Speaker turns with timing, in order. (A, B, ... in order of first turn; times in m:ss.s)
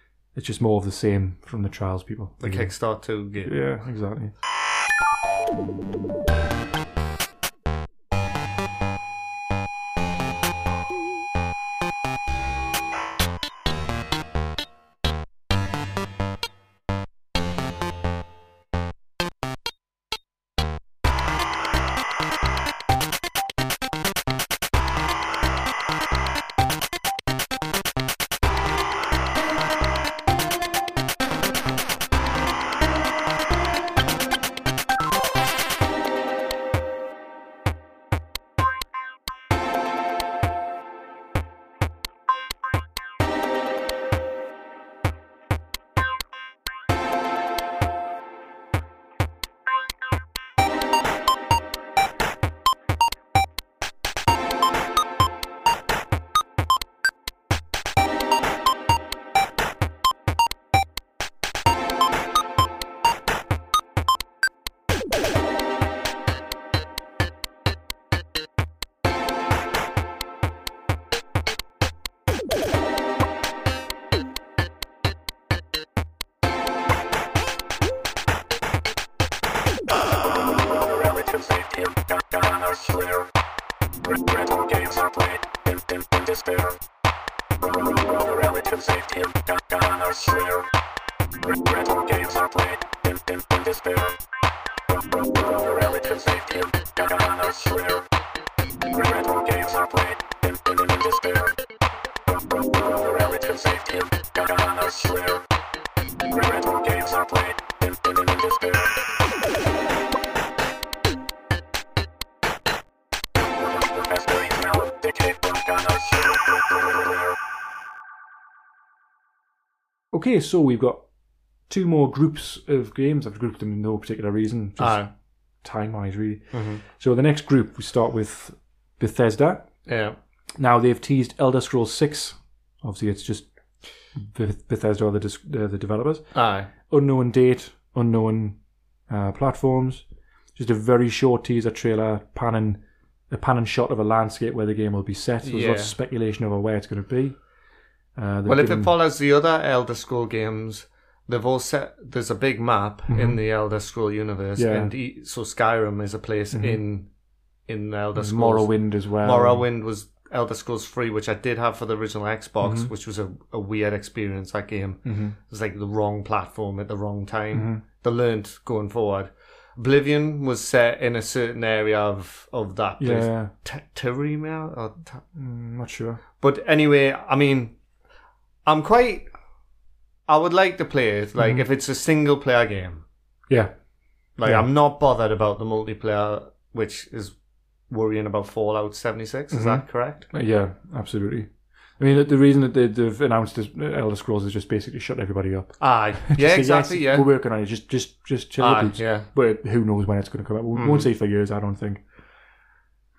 0:00.3-0:02.7 A
0:02.4-0:03.6 B
0:03.4-0:04.3 A
1:20.7-1:23.3 C
1:24.0-1:26.8 C
1:27.7-1:30.7 C
1:31.4-1:34.2 C
1:35.0-1:38.0 C
1:38.9-1:41.6 C
1:42.4-1:45.4 C
1:46.3-1:48.9 C
1:54.0-1:57.0 C
2:00.1-2:01.0 A
2:01.7-2:05.1 A
2:04.8-2:05.1 B
2:05.6-2:09.7 A
2:06.5-2:06.8 B
2:09.9-2:10.2 B
2:10.6-2:13.5 A
2:14.1-2:16.3 A
2:16.3-2:16.7 B
2:16.9-2:18.6 A
2:19.1-2:20.0 A
2:20.6-2:27.4 A
2:25.4-2:25.9 B
2:28.2-2:28.9 A
2:28.5-2:37.1 B
2:33.1-2:33.4 A
2:34.6-2:34.9 A
2:36.5-2:36.8 A
2:37.7-2:55.2 B
2:38.2-2:39.6 A
2:42.6-2:42.9 A
2:45.0-2:45.4 A
2:47.5-2:47.8 A
2:53.0-2:53.5 A
2:55.4-2:56.2 A
2:56.4-2:57.7 B
2:58.6-2:59.3 B
3:00.3-3:03.0 B
3:01.4-3:01.6 A
3:04.4-3:07.3 B
3:07.9-3:10.3 B
3:09.5-3:22.0 A
3:15.8-3:17.3 B
3:18.6-3:19.3 B
3:20.7-3:21.1 B